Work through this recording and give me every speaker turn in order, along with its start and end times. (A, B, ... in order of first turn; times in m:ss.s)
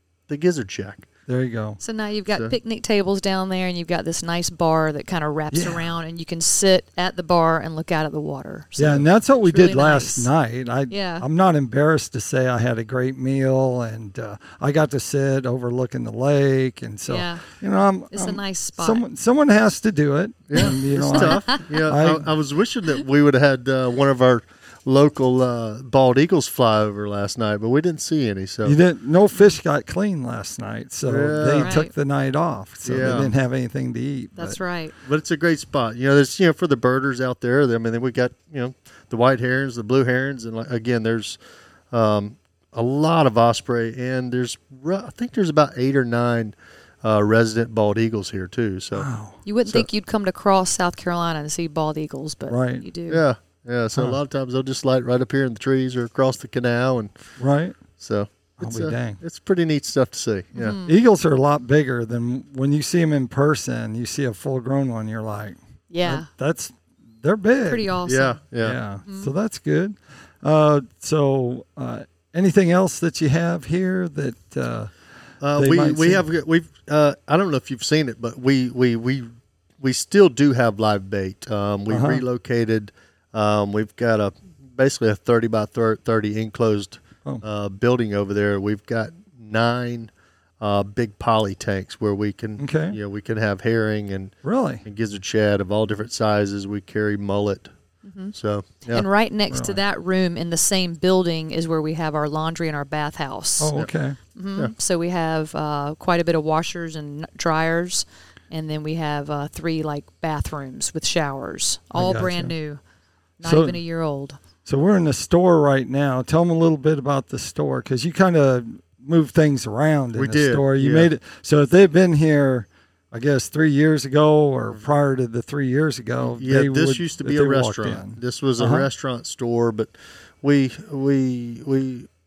0:00.3-0:01.1 A
0:01.3-0:01.8 B
0:01.8-0:10.3 C
0:02.3-0:02.6 A
0:05.5-0:05.9 B
0:08.8-0:22.3 B
0:10.9-0:11.2 C
0:17.1-0:17.5 C
0:18.1-0:19.0 C
0:20.5-0:28.8 A
0:21.1-0:21.6 C
0:28.6-0:34.6 B
0:31.1-0:31.7 A
0:31.6-0:31.9 C
0:32.8-0:33.3 A
0:34.4-0:34.9 C
0:35.0-0:41.4 A
0:41.9-0:49.1 A
0:48.9-0:49.4 B
0:49.4-0:53.2 C
0:52.5-0:52.9 B
0:53.1-0:57.1 A
0:57.4-0:57.8 B
0:58.0-1:00.8 A
0:58.6-0:59.2 B
1:00.5-1:01.0 C
1:00.9-1:08.0 B
1:05.9-1:06.3 C
1:07.6-1:08.4 C
1:08.1-1:08.8 A
1:08.6-1:14.9 B
1:09.0-1:09.3 C
1:15.4-1:19.3 A
1:15.5-1:16.2 B
1:19.8-1:37.7 A
1:21.9-1:22.2 B
1:32.6-1:33.0 B
1:34.4-1:34.8 B
1:38.0-1:38.3 C
1:38.3-1:39.1 A
1:38.9-1:43.7 C
1:39.5-1:39.8 B
1:43.6-1:44.2 B
1:44.4-1:52.8 C
1:52.0-1:52.5 B
1:53.4-1:54.4 C
1:53.4-1:53.8 B
1:54.6-2:08.9 B
2:00.1-2:01.1 A
2:06.2-2:12.1 A